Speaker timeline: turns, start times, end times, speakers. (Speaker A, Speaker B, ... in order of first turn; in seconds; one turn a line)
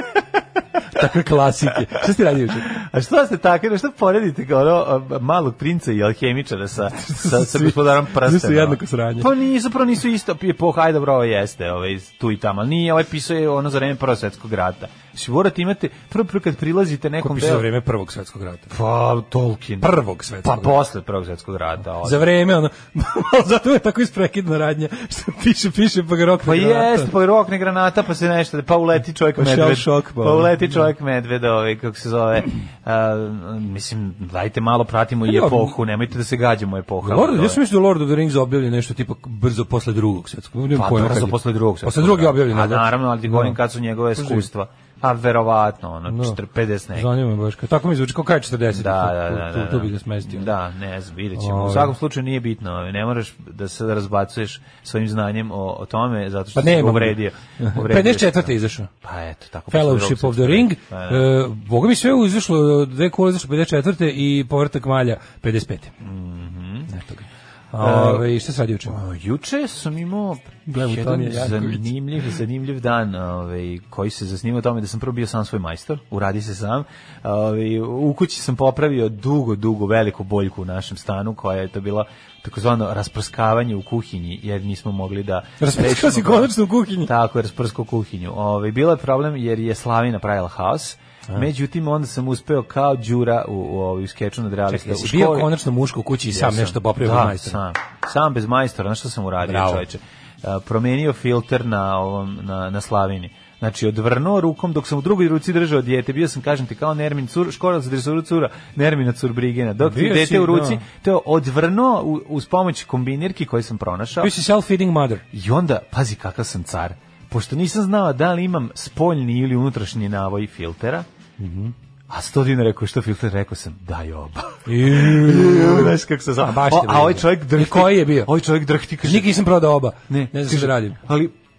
Speaker A: 0.9-2.7
Speaker B: 2.7-17.7
Speaker A: 7.0-9.3
Speaker A: 17.2-18.7
Speaker B: 18.7-22.3
Speaker A: 19.8-20.7
Speaker A: 22.0-27.1
Speaker B: 26.4-37.6
Speaker A: 29.4-30.9
Speaker A: 35.3-35.8
Speaker A: 37.0-43.6
Speaker B: 40.7-47.1
Speaker A: 44.2-44.5
Speaker A: 46.1-46.4
Speaker A: 47.0-50.5
Speaker B: 48.7-61.3
Speaker A: 51.4-51.9
Speaker A: 56.6-58.9
Speaker A: 59.7-65.9
Speaker B: 66.0-66.9
Speaker A: 66.9-69.0
Speaker B: 67.8-68.3
Speaker B: 68.9-95.5
Speaker A: 70.7-71.9
Speaker A: 85.6-87.1
Speaker A: 94.7-97.6
Speaker B: 96.3-114.3
Speaker A: 99.4-99.8
Speaker A: 109.8-110.8
Speaker A: 114.2-115.2
Speaker B: 115.3-121.1
Speaker A: 121.4-121.7
Speaker B: 122.1-129.4
Speaker A: 124.7-128.3
Speaker A: 129.0-131.0
Speaker B: 130.1-131.3